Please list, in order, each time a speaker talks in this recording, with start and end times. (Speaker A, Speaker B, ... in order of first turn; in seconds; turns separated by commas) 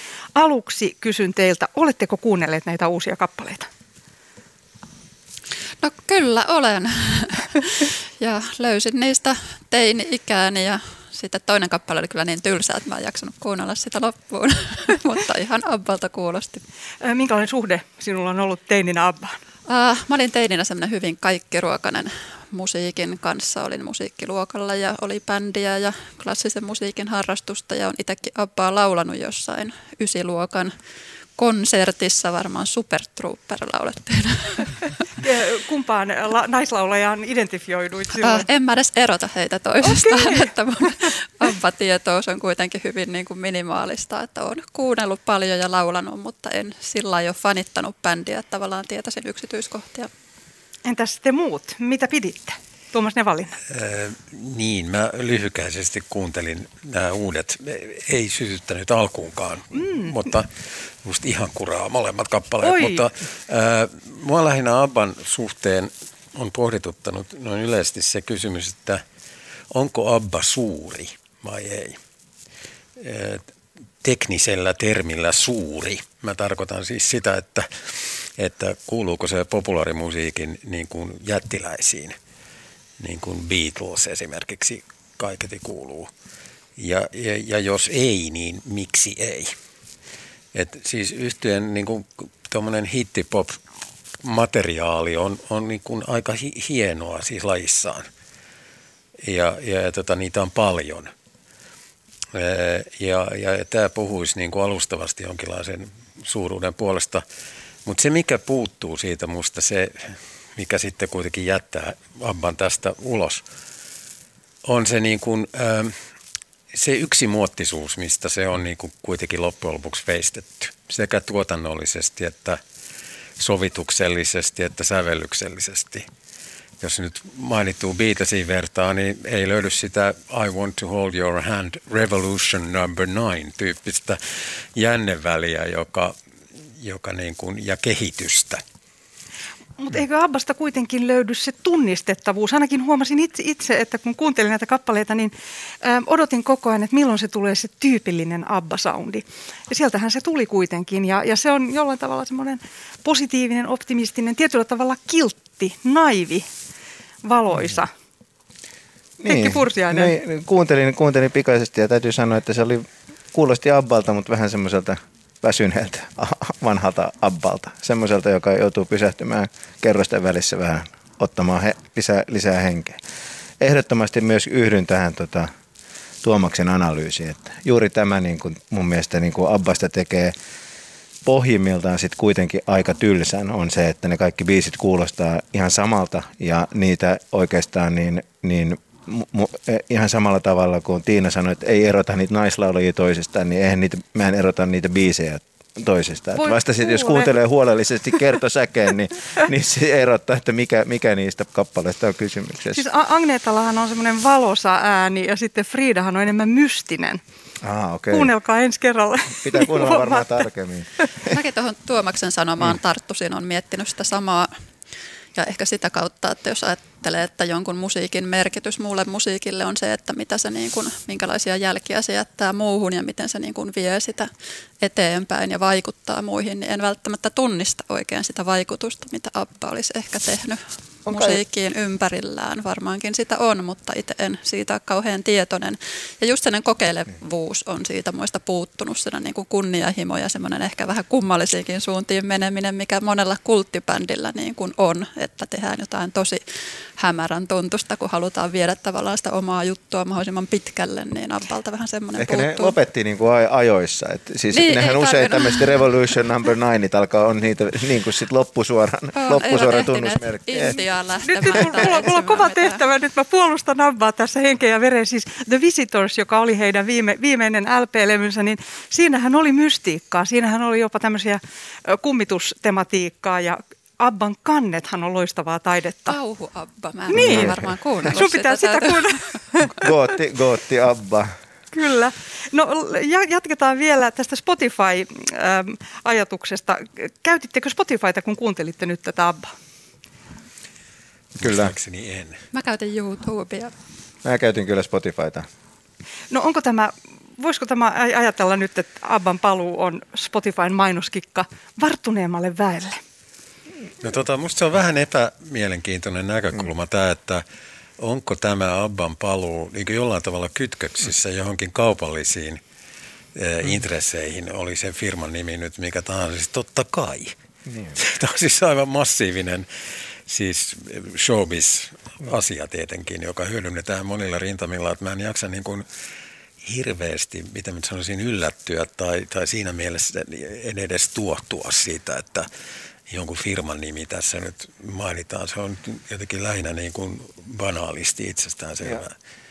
Speaker A: 0.3-3.7, Speaker B: 5.8-16.6, Speaker A: 17.0-19.4, Speaker B: 19.7-30.7, Speaker B: 31.4-34.9, Speaker A: 35.2-38.5, Speaker B: 38.2-50.1, Speaker A: 39.8-40.5, Speaker A: 50.8-53.6, Speaker C: 53.7-60.5, Speaker A: 59.8-60.1, Speaker C: 61.0-69.0, Speaker A: 62.6-63.0, Speaker C: 69.7-72.0, Speaker C: 73.0-73.4, Speaker C: 74.0-82.2, Speaker C: 83.0-86.1, Speaker C: 86.8-89.5, Speaker C: 90.5-93.6, Speaker C: 94.2-98.1, Speaker C: 99.2-101.1, Speaker C: 102.3-107.2, Speaker C: 107.8-113.4, Speaker C: 114.6-115.9, Speaker C: 116.7-122.6, Speaker C: 123.4-126.1, Speaker C: 126.8-134.2, Speaker C: 134.7-136.1, Speaker C: 136.8-138.6, Speaker A: 139.8-156.4, Speaker A: 157.2-157.9, Speaker D: 159.2-173.0, Speaker A: 159.3-160.1, Speaker D: 173.6-175.5, Speaker D: 176.2-180.3, Speaker D: 181.2-202.8, Speaker A: 196.4-197.3, Speaker A: 202.7-207.2, Speaker D: 207.6-208.3, Speaker A: 208.1-210.3, Speaker D: 209.4-211.3, Speaker B: 211.2-214.5, Speaker B: 215.3-224.3, Speaker B: 224.8-246.4, Speaker D: 231.1-231.4, Speaker B: 247.0-252.7, Speaker D: 252.2-260.8, Speaker B: 254.5-255.9, Speaker B: 259.1-262.8, Speaker A: 261.3-276.2, Speaker B: 276.1-279.2, Speaker A: 277.1-279.9, Speaker D: 277.1-277.6, Speaker D: 279.7-281.3, Speaker A: 281.7-289.5, Speaker D: 291.4-291.7, Speaker C: 291.4-292.4, Speaker B: 292.5-293.7, Speaker D: 294.2-295.5, Speaker A: 296.3-303.0, Speaker C: 304.0-307.4, Speaker C: 308.0-312.6, Speaker C: 313.4-317.3, Speaker D: 317.7-317.9, Speaker C: 317.9-319.6, Speaker C: 320.3-325.8, Speaker C: 326.6-332.5, Speaker C: 333.1-339.1